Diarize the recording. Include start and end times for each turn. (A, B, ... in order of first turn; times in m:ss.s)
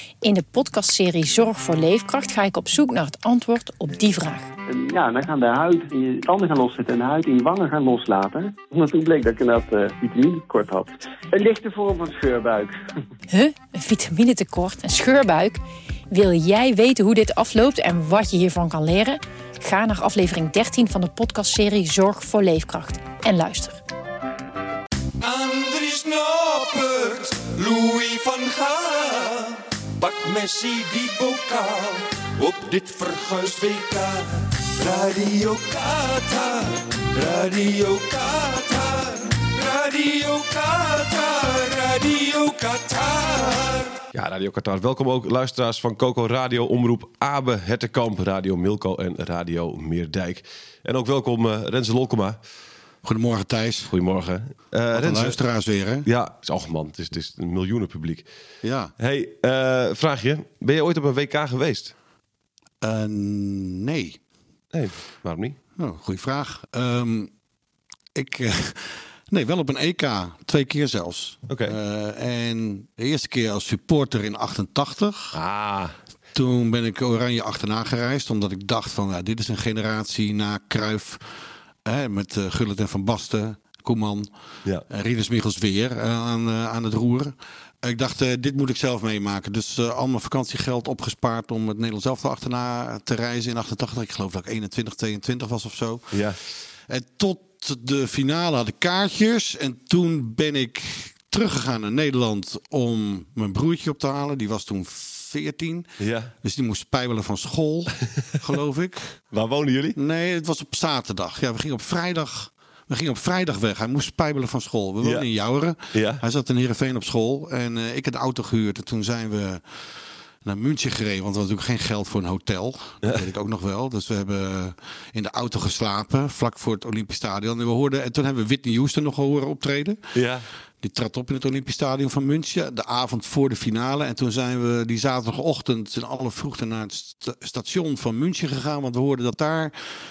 0:00.2-0:04.5 A
0:04.7-0:12.8 B
0:13.3-0:23.8 A
0:25.2-0:44.0 C
0:44.1-0:52.4 D
0:53.0-0:53.9 E
0:53.9-0:55.4 D
0:54.9-0:56.1 E
0:56.0-0:58.2 D
0:58.6-0:58.9 E
0:59.0-1:01.9 D
1:02.8-1:04.2 E
1:04.7-1:05.6 D
1:05.8-1:07.3 E
1:08.1-1:15.4 E
1:11.5-1:11.8 D
1:15.3-1:15.9 D
1:16.3-1:21.2 E
1:21.8-1:24.3 E
1:24.9-1:36.2 E
1:36.1-1:36.4 D
1:36.9-1:45.9 E
1:46.0-1:46.3 D
1:46.4-1:49.2 E
1:49.3-1:50.0 D
1:50.0-1:59.6 E
1:55.9-1:56.2 D
2:00.4-2:10.0 E
2:10.1-2:10.4 D
2:10.8-2:19.7 E